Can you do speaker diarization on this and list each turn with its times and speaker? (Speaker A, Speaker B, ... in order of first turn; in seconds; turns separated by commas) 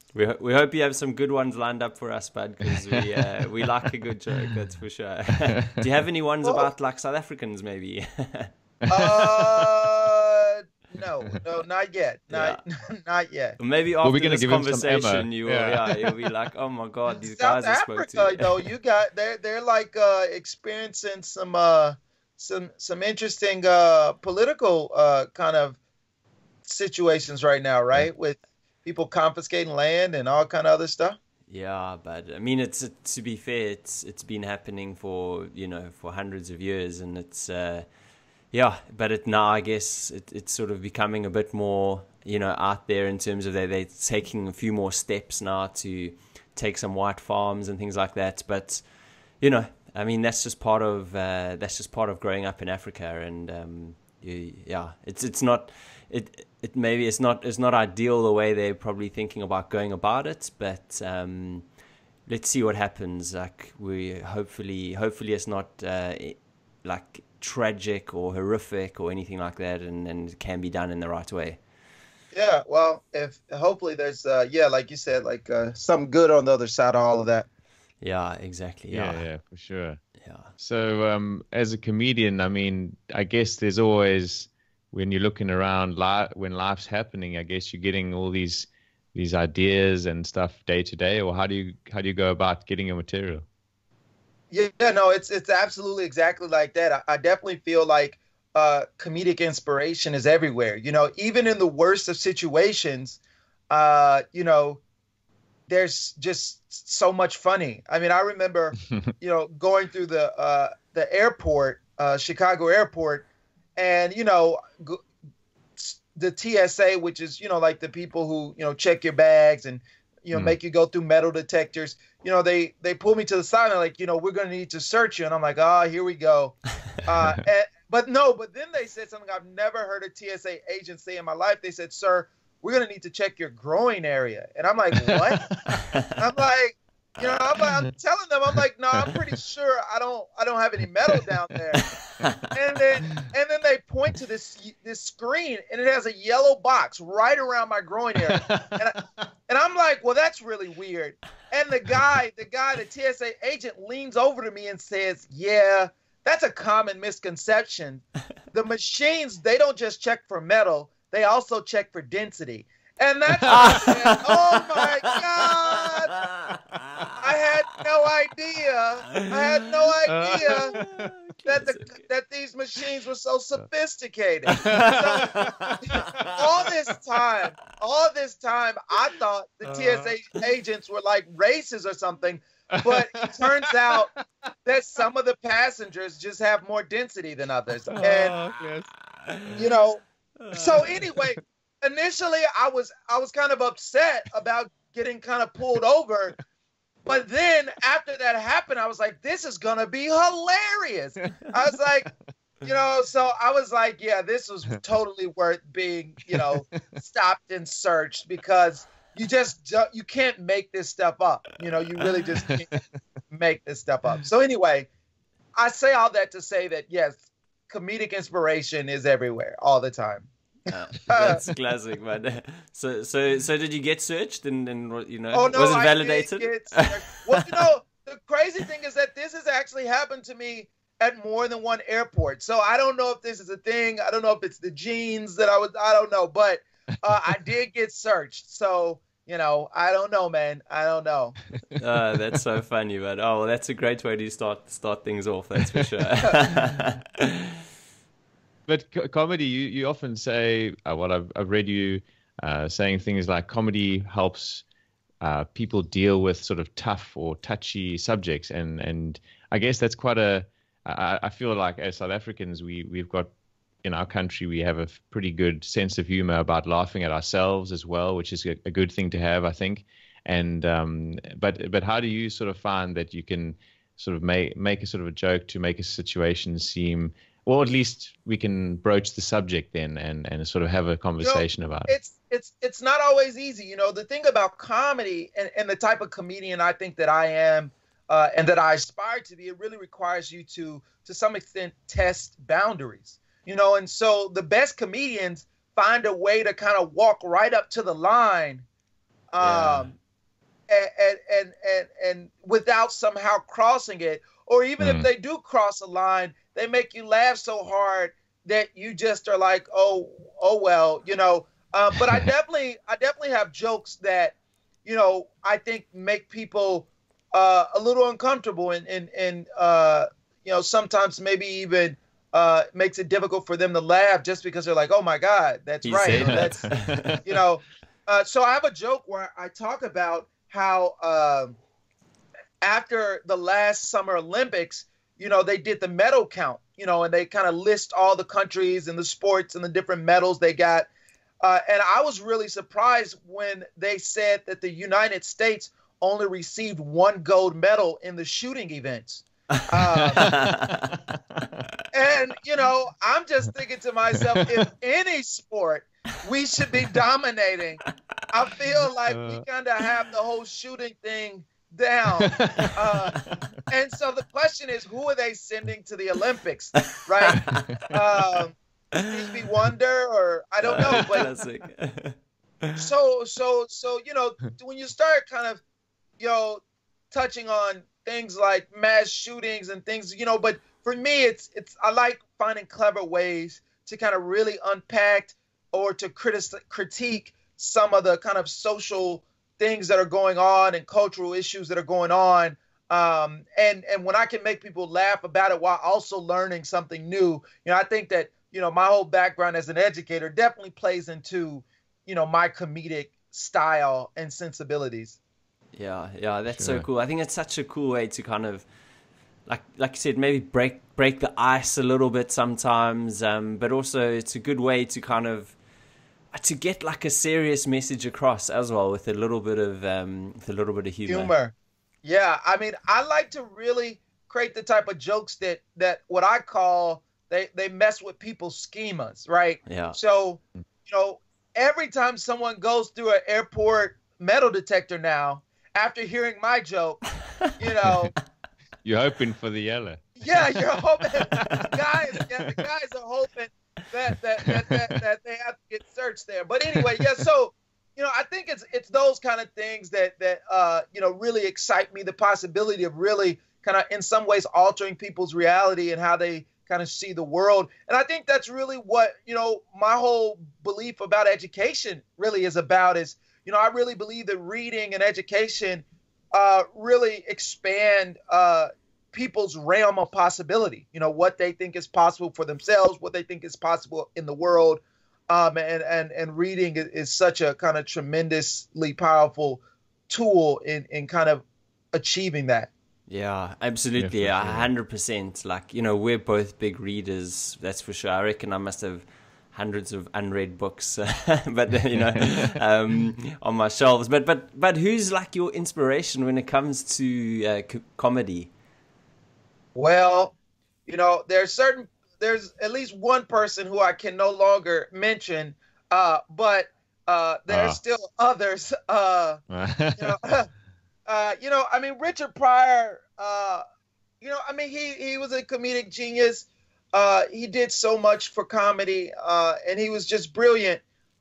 Speaker A: 0.1-8.5, Speaker B: 8.8-9.7, Speaker C: 8.9-13.6, Speaker A: 12.3-12.6, Speaker A: 13.6-18.4, Speaker B: 14.0-16.2, Speaker C: 17.2-25.8, Speaker C: 26.6-31.2, Speaker A: 31.5-38.0, Speaker A: 38.5-61.7, Speaker A: 62.3-71.6, Speaker C: 72.3-77.5, Speaker A: 78.0-79.3, Speaker B: 78.9-80.0, Speaker A: 80.2-80.5, Speaker B: 80.6-93.5, Speaker C: 94.5-103.2, Speaker C: 103.7-104.8, Speaker C: 105.7-115.0, Speaker C: 115.8-166.2, Speaker B: 135.0-135.8, Speaker A: 141.9-142.5, Speaker B: 148.3-148.8, Speaker B: 163.4-163.9, Speaker A: 163.5-167.2, Speaker C: 167.2-170.8, Speaker A: 169.1-169.4, Speaker B: 170.1-171.1, Speaker A: 170.4-172.0, Speaker C: 171.4-184.1, Speaker A: 174.6-176.4, Speaker B: 174.6-176.3, Speaker B: 179.7-180.1, Speaker B: 182.8-183.5, Speaker C: 184.7-188.4, Speaker B: 187.9-188.9, Speaker A: 188.0-188.7, Speaker C: 189.5-196.4, Speaker A: 190.4-190.9, Speaker C: 197.1-202.1, Speaker C: 202.6-212.8, Speaker B: 212.5-212.8, Speaker C: 213.3-214.9, Speaker C: 215.6-220.3, Speaker A: 220.7-227.6, Speaker C: 221.1-221.4, Speaker C: 225.3-241.5, Speaker A: 241.8-247.6, Speaker B: 248.7-254.7, Speaker B: 255.2-263.3, Speaker B: 263.8-281.9, Speaker C: 281.2-298.6, Speaker C: 299.3-299.9, Speaker A: 299.4-299.9, Speaker C: 300.7-331.6, Speaker B: 304.8-305.1, Speaker A: 325.8-327.2, Speaker B: 326.1-327.2, Speaker C: 332.6-340.9, Speaker C: 341.4-350.4, Speaker A: 349.5-350.9, Speaker B: 350.2-351.6, Speaker C: 351.9-371.3, Speaker B: 354.2-354.4, Speaker B: 359.1-359.4, Speaker B: 362.2-362.7, Speaker A: 367.0-367.8, Speaker A: 370.6-372.8, Speaker C: 372.8-375.6, Speaker C: 376.2-405.2, Speaker A: 405.8-408.7, Speaker B: 406.6-406.9, Speaker A: 409.5-415.6, Speaker A: 416.3-421.3, Speaker C: 421.1-438.1, Speaker A: 429.7-430.0, Speaker B: 438.8-440.2, Speaker C: 440.2-482.7, Speaker A: 483.1-498.5, Speaker B: 484.0-484.7, Speaker C: 499.8-500.3, Speaker C: 500.9-509.4, Speaker B: 507.5-507.8, Speaker B: 509.5-510.2, Speaker C: 510.0-510.5, Speaker C: 511.1-513.6, Speaker C: 514.2-520.8